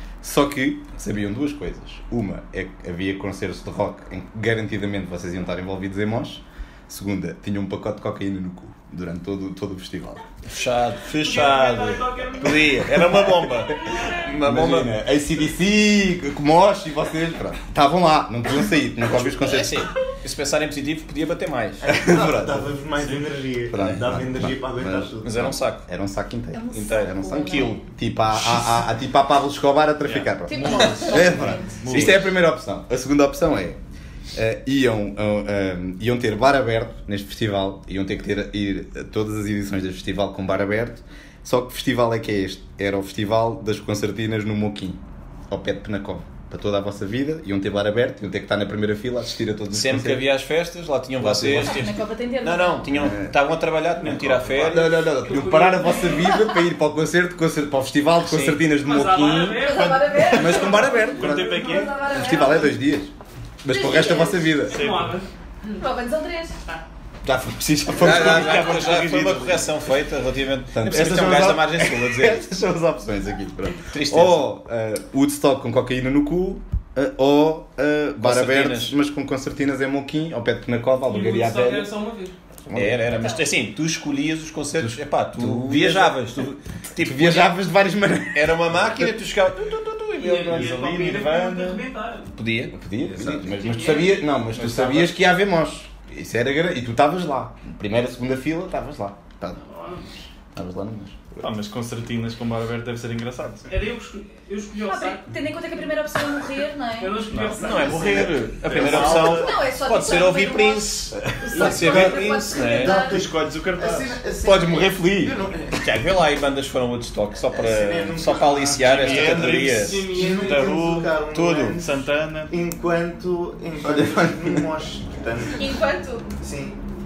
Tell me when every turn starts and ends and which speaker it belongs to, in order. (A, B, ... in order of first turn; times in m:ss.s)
0:00.2-0:10.2 A
0:10.4-0:14.9 B
0:11.1-0:12.9 C
0:12.9-0:19.9 A
0:13.7-0:14.3 C
0:19.1-0:21.8 B
0:21.8-0:25.5 D
0:21.8-0:22.7 A
0:23.0-0:23.3 E
0:23.7-0:33.8 A
0:25.2-0:25.9 B
0:26.5-0:27.8 F
0:27.5-0:27.8 B
0:30.0-0:32.2 E
0:30.4-0:31.8 F
0:31.9-0:32.2 B
0:34.3-0:50.3 A
0:49.7-0:55.1 B
0:51.2-0:51.9 A
0:51.6-0:52.8 F
0:52.9-0:53.4 A
0:54.0-0:54.9 E
0:54.7-1:03.1 A
0:55.1-0:56.4 C
0:58.2-0:58.7 B
0:58.8-1:01.0 C
0:59.3-1:02.8 F
1:01.0-1:02.1 E
1:03.6-1:04.9 A
1:03.7-1:04.6 F
1:04.6-1:05.8 C
1:04.7-1:05.2 E
1:05.8-1:06.6 F
1:07.2-1:09.4 A
1:08.0-1:12.4 B
1:08.1-1:09.6 E
1:10.7-1:21.9 A
1:13.9-1:14.5 B
1:18.2-1:19.0 B
1:21.0-1:22.4 C
1:22.7-1:23.1 A
1:22.7-1:27.6 B
1:24.8-1:26.3 A
1:27.0-1:29.1 A
1:28.3-1:30.8 B
1:30.2-1:32.4 C
1:30.5-1:31.8 E
1:32.4-1:32.7 B
1:32.7-1:39.6 A
1:33.0-1:34.0 D
1:33.6-1:34.2 C
1:34.5-1:35.1 B
1:39.6-1:40.2 C
1:40.6-1:41.5 A
1:41.4-1:43.6 E
1:43.7-1:45.4 C
1:44.8-1:47.2 F
1:46.9-1:48.3 C
1:47.3-1:49.6 E
1:47.5-1:53.0 B
1:49.1-1:53.2 F
1:51.3-1:52.1 A
1:52.7-1:55.8 D
1:52.8-1:54.2 E
1:54.4-2:00.1 B
1:57.5-2:05.8 D
1:58.8-2:02.5 E
1:59.6-2:01.2 C
2:01.3-2:01.8 B
2:03.8-2:04.6 A
2:05.5-2:06.3 F
2:06.4-2:06.8 D